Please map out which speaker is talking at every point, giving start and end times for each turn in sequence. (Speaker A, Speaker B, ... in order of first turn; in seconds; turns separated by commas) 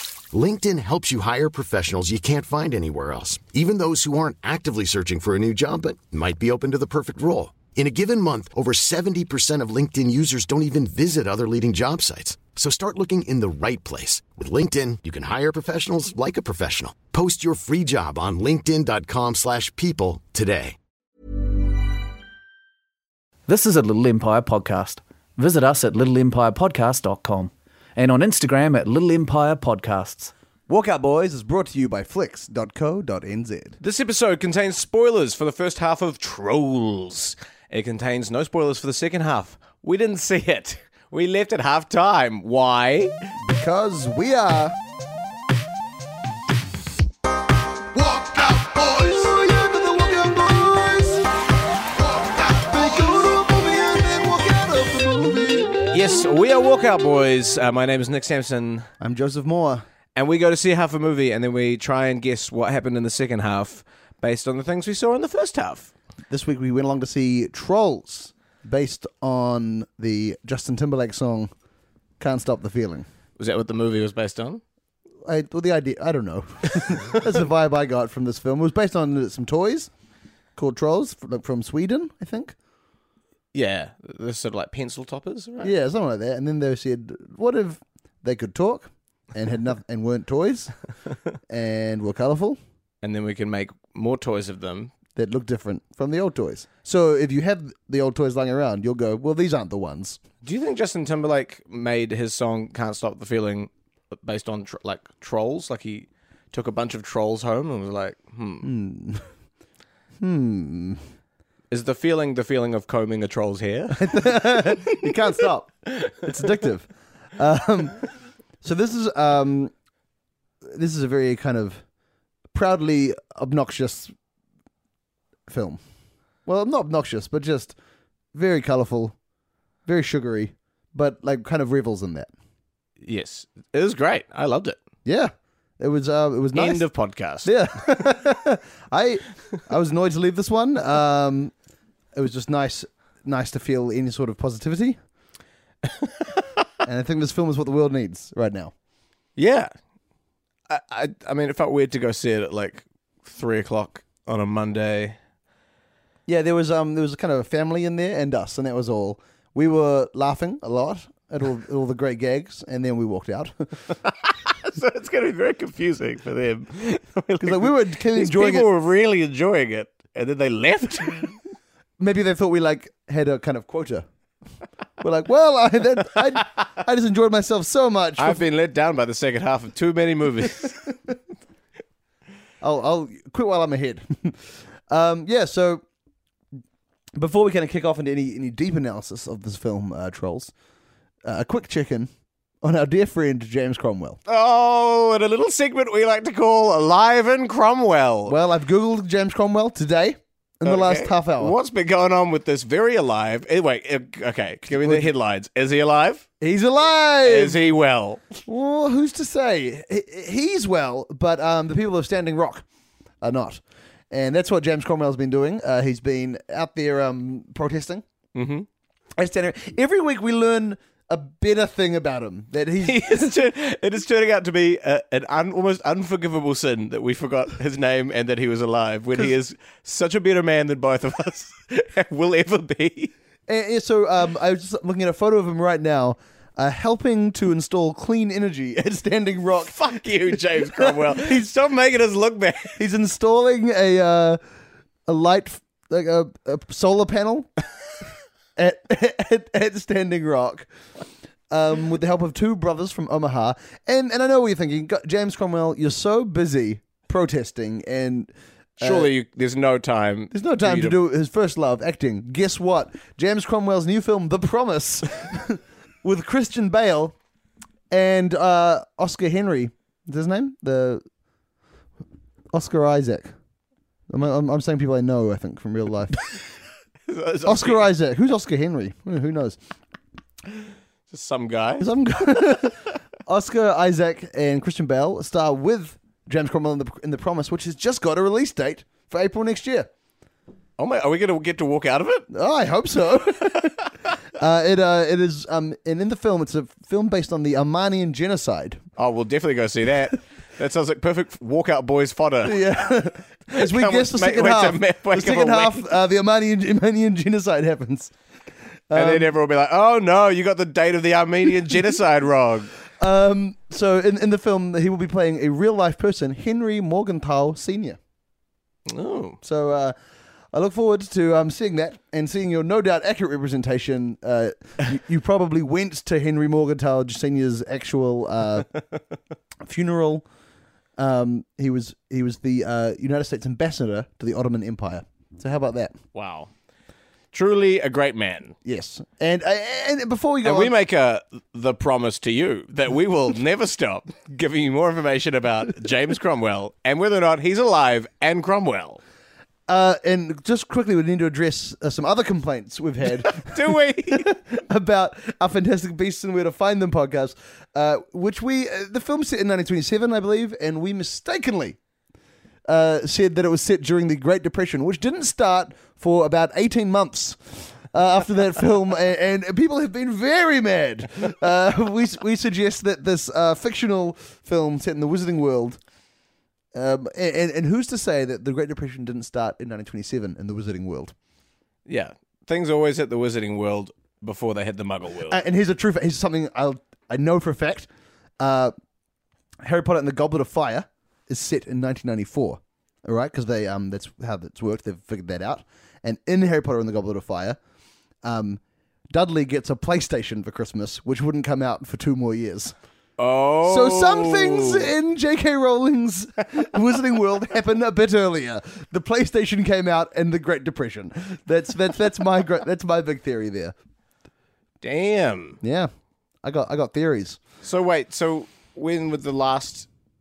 Speaker A: 0.3-20.8, Speaker B: 23.5-30.3, Speaker C: 30.7-33.8, Speaker D: 33.8-43.1, Speaker C: 43.4-44.8, Speaker C: 47.9-51.3, Speaker C: 52.0-55.9, Speaker D: 55.9-58.9, Speaker C: 59.0-59.9, Speaker D: 60.1-65.9, Speaker C: 66.3-71.5, Speaker C: 72.2-73.1, Speaker D: 73.4-74.6, Speaker C: 75.2-79.9, Speaker C: 80.5-82.5, Speaker D: 83.5-85.7, Speaker C: 85.6-90.7, Speaker C: 91.5-92.6, Speaker D: 93.0-94.9, Speaker C: 95.2-100.2, Speaker D: 100.4-108.7, Speaker C: 108.6-109.3, Speaker C: 110.2-111.0, Speaker D: 111.7-115.2, Speaker C: 113.9-118.0, Speaker C: 118.6-119.7, Speaker C: 120.6-121.8, Speaker C: 122.5-124.1, Speaker C: 125.5-125.8, Speaker C: 126.5-127.7, Speaker C: 128.3-129.1, Speaker C: 129.8-132.3, Speaker D: 133.0-134.8, Speaker C: 135.1-136.8, Speaker D: 136.5-137.5, Speaker C: 137.4-141.5, Speaker C: 142.1-145.0, Speaker C: 146.8-148.7, Speaker D: 149.3-149.7, Speaker D: 150.7-155.2, Speaker C: 156.3-163.8, Speaker D: 164.5-171.4, Speaker C: 167.4-168.7, Speaker C: 172.0-174.0, Speaker C: 175.0-178.4, Speaker D: 178.2-180.9, Speaker C: 182.6-185.8, Speaker C: 187.1-190.5, Speaker C: 191.2-192.1, Speaker C: 192.6-194.2, Speaker D: 194.2-198.4, Speaker C: 198.3-201.5, Speaker D: 200.6-206.3, Speaker C: 204.7-205.1, Speaker C: 206.4-207.6, Speaker D: 207.2-208.3, Speaker C: 208.4-212.6, Speaker C: 213.2-218.0, Speaker D: 218.3-218.7, Speaker C: 219.2-223.3, Speaker D: 222.8-233.1, Speaker C: 233.5-239.8, Speaker D: 239.6-242.8, Speaker C: 240.3-241.4, Speaker C: 242.8-244.4, Speaker C: 245.1-247.5, Speaker C: 248.6-250.7, Speaker C: 251.5-259.1, Speaker D: 258.8-261.0, Speaker C: 260.3-267.1, Speaker C: 267.9-271.0, Speaker C: 272.5-273.3, Speaker C: 274.1-276.2, Speaker D: 277.1-277.9, Speaker C: 277.4-279.6, Speaker D: 281.1-281.8, Speaker C: 281.8-289.9, Speaker D: 290.8-292.3, Speaker C: 292.3-293.8, Speaker C: 294.4-298.8, Speaker D: 299.0-305.9, Speaker C: 302.4-308.1, Speaker C: 308.9-309.3, Speaker D: 308.9-312.8, Speaker C: 313.0-318.0, Speaker D: 318.9-319.4, Speaker C: 319.4-319.9, Speaker C: 320.5-328.7, Speaker C: 329.6-330.2, Speaker C: 331.0-336.0, Speaker D: 336.1-336.5, Speaker D: 337.3-338.6, Speaker C: 338.6-340.7, Speaker D: 340.4-349.0, Speaker C: 349.7-361.8, Speaker D: 353.2-354.3, Speaker C: 362.6-375.8, Speaker C: 376.7-381.1, Speaker D: 381.9-385.4, Speaker C: 385.3-387.9, Speaker C: 388.4-388.7, Speaker C: 389.6-397.6, Speaker C: 398.2-402.7, Speaker D: 403.2-404.9, Speaker C: 403.6-413.7, Speaker D: 414.8-415.6, Speaker C: 415.6-415.9, Speaker C: 416.4-417.4, Speaker D: 417.6-419.9